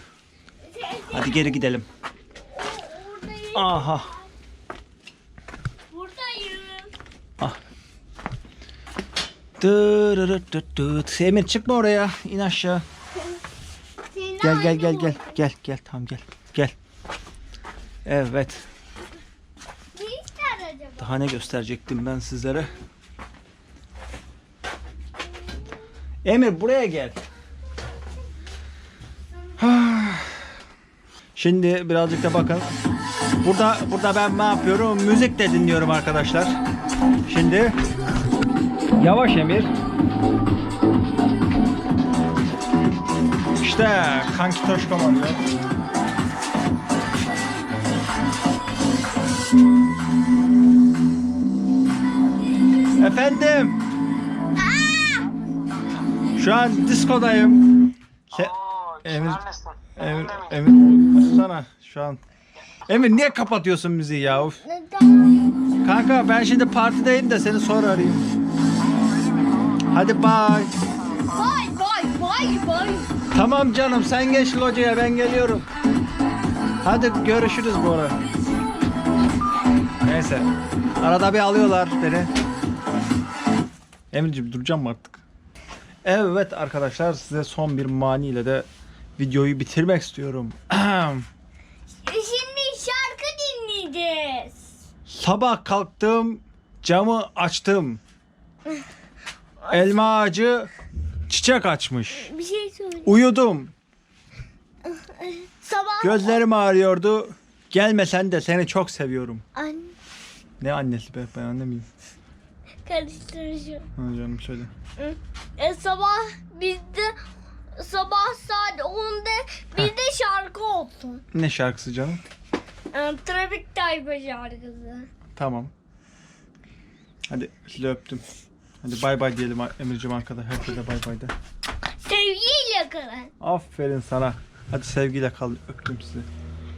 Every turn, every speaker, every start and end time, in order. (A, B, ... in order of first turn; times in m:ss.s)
0:00.6-0:01.7 A
0:01.1-0:01.9 B
0:02.4-0:04.3 A
0:03.5-0:04.1 B
0:05.9-0:06.9 A
0:09.6-0:12.8 B
0:14.1-0:15.4 A
0:14.4-0:16.8 B
0:18.0-0:18.7 B
0:19.9-0:21.2 A
0:21.0-0:22.7 B
0:26.2-0:27.2 B
0:29.6-0:30.5 B
0:31.4-0:32.7 B
0:33.4-0:36.6 B
0:37.3-0:37.8 B
0:39.0-0:39.7 B
0:43.6-0:45.4 B
0:53.0-0:53.8 B
0:54.6-0:55.3 A
0:56.4-0:57.6 B
0:58.3-1:02.2 B
1:02.9-1:04.6 B
1:04.5-1:05.8 A
1:05.8-1:08.2 B
1:09.9-1:10.7 B
1:11.2-1:13.1 A
1:13.3-1:15.7 B
1:16.8-1:18.2 B
1:20.0-1:20.5 B
1:21.0-1:22.3 B
1:24.1-1:25.2 B
1:26.0-1:31.3 B
1:32.0-1:34.7 A
1:35.1-1:38.0 B
1:39.6-1:40.0 A
1:39.7-1:40.7 B
1:41.3-1:42.3 B
1:42.1-1:43.2 A
1:43.0-1:43.7 B
1:44.8-1:46.4 A
1:46.0-1:49.4 B
1:49.6-1:50.0 A
1:50.6-1:51.9 B
1:52.8-1:53.9 A
1:54.0-1:54.7 B
1:55.0-2:01.2 A
2:01.3-2:02.2 B
2:02.9-2:05.1 A
2:05.4-2:05.7 B
2:07.3-2:08.2 B
2:08.8-2:11.3 B
2:12.0-2:13.3 A
2:13.4-2:16.3 B